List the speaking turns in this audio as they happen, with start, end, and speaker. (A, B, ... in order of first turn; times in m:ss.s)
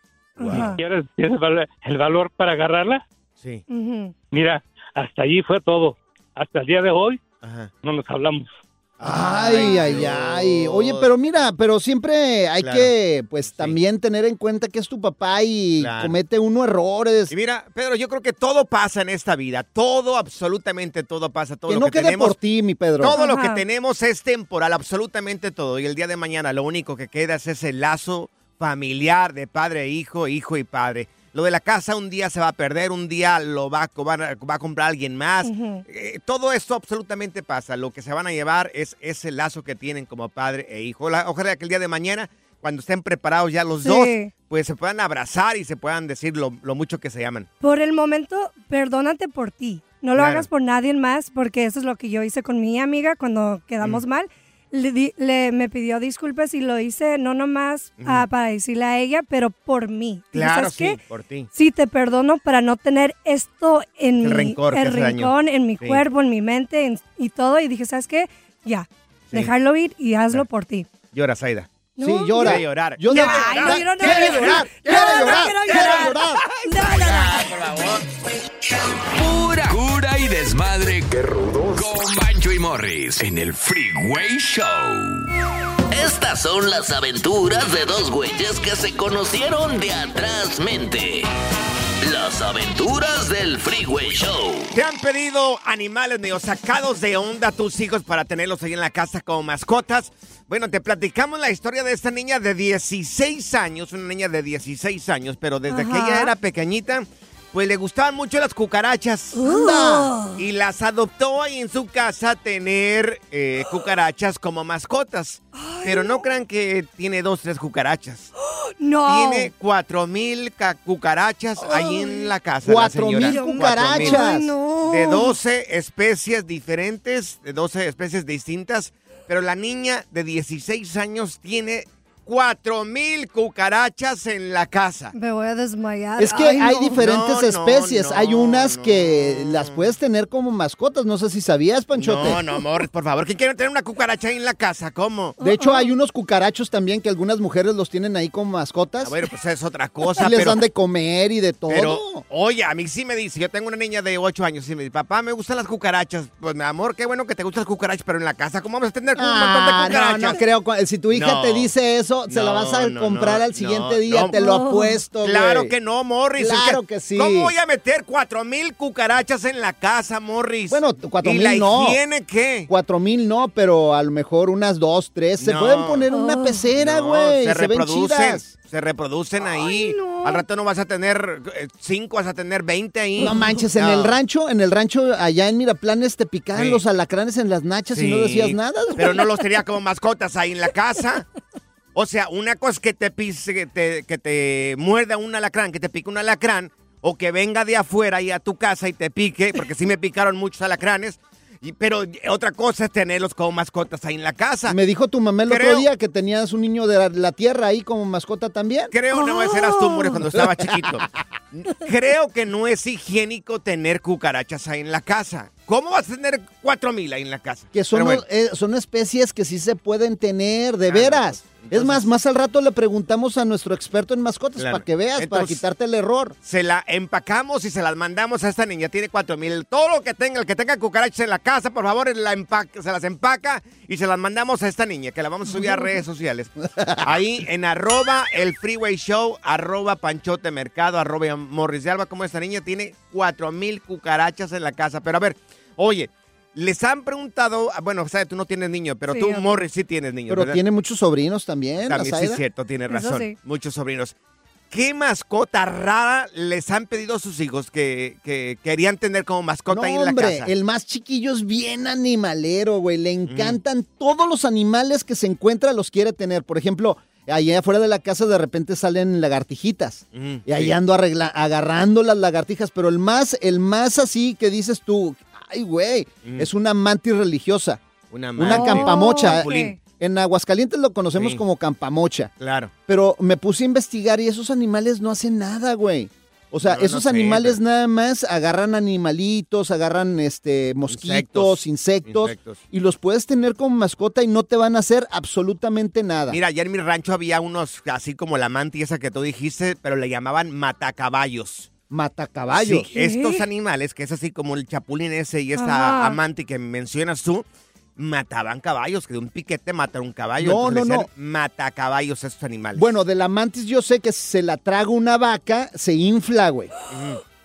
0:00.4-0:00.8 A
0:00.4-0:00.7 B
0:00.8-0:03.0 C
0:03.7-0:04.1 A
0:04.3-0:07.2 C
0:07.4-0:07.7 B
0:07.8-0:08.5 C
0:09.0-0:11.1 B
0:09.0-0:17.3 D
0:09.5-0:10.0 A
0:12.6-0:12.9 B
0:13.4-0:13.8 B
0:15.8-0:16.2 B
0:17.3-0:22.4 B
0:21.7-0:23.2 D
0:23.0-0:47.5 B
0:23.1-0:23.6 A
0:35.4-0:35.8 A
0:43.8-0:44.3 A
0:47.6-1:01.0 A
0:50.2-0:50.5 B
0:58.0-0:58.3 B
1:00.3-1:01.5 B
1:01.5-1:10.9 A
1:04.2-1:06.0 B
1:11.1-1:11.7 B
1:12.0-1:17.6 A
1:12.0-1:16.4 D
1:12.4-1:16.1 B
1:16.7-1:17.4 B
1:19.1-1:25.2 E
1:25.9-1:31.3 F
1:32.0-1:34.7 F
1:34.7-1:49.4 B
1:45.7-1:46.3 A
1:49.3-1:50.4 A
1:49.4-1:50.1 D
1:50.4-1:58.3 B
1:55.5-1:56.2 A
1:58.8-1:59.5 A
1:59.1-2:04.3 B
2:01.6-2:02.3 A
2:02.6-2:04.5 D
2:03.2-2:05.4 A
2:04.8-2:15.1 B
2:15.1-2:17.0 A
2:16.2-2:22.4 D
2:17.0-2:19.8 B
2:22.0-2:25.4 B
2:22.3-2:22.6 A
2:25.4-2:25.9 A
2:25.4-2:29.2 D
2:29.0-2:30.6 B
2:30.2-2:32.2 D
2:31.7-2:40.4 B
2:39.2-2:45.7 D
2:41.1-2:41.7 B
2:42.3-2:44.4 B
2:44.3-2:45.0 A
2:45.2-2:52.7 B
2:46.4-2:47.5 D
2:50.7-2:52.0 D
2:52.7-2:58.5 D
2:55.4-2:56.1 B
2:56.1-2:56.7 A
2:56.8-3:04.2 B
2:59.4-3:00.4 A
3:03.2-3:03.6 A
3:03.2-3:09.1 D
3:06.5-3:06.8 B
3:07.9-3:11.3 B
3:12.0-3:24.8 B
3:24.7-3:28.9 D
3:25.5-3:25.9 B
3:28.9-3:38.2 B
3:29.1-3:30.2 A
3:37.7-3:46.4 D
3:40.9-3:42.0 B
3:44.6-3:45.6 B
3:46.4-4:10.6 B
3:55.5-3:56.0 A
3:56.8-3:57.0 D
4:09.1-4:09.6 A
4:10.3-4:12.4 D
4:11.8-4:14.1 B
4:12.9-4:13.4 A
4:14.7-4:20.5 B
4:19.7-4:37.8 D
4:23.3-4:23.6 B
4:30.1-4:30.8 B
4:36.2-4:36.5 B
4:38.1-4:39.8 B
4:38.4-4:42.3 D
4:38.4-4:39.8 A
4:41.2-4:41.4 B
4:42.4-4:42.7 B
4:42.9-4:56.4 D
4:46.6-4:47.6 B
4:50.9-4:52.6 B
4:56.3-5:01.7 B
5:01.9-5:02.9 D
5:02.6-5:07.4 B
5:02.9-5:03.4 A
5:05.6-5:06.2 A
5:08.0-5:12.9 B
5:10.4-5:11.1 D
5:12.8-5:16.7 D
5:16.9-5:17.2 B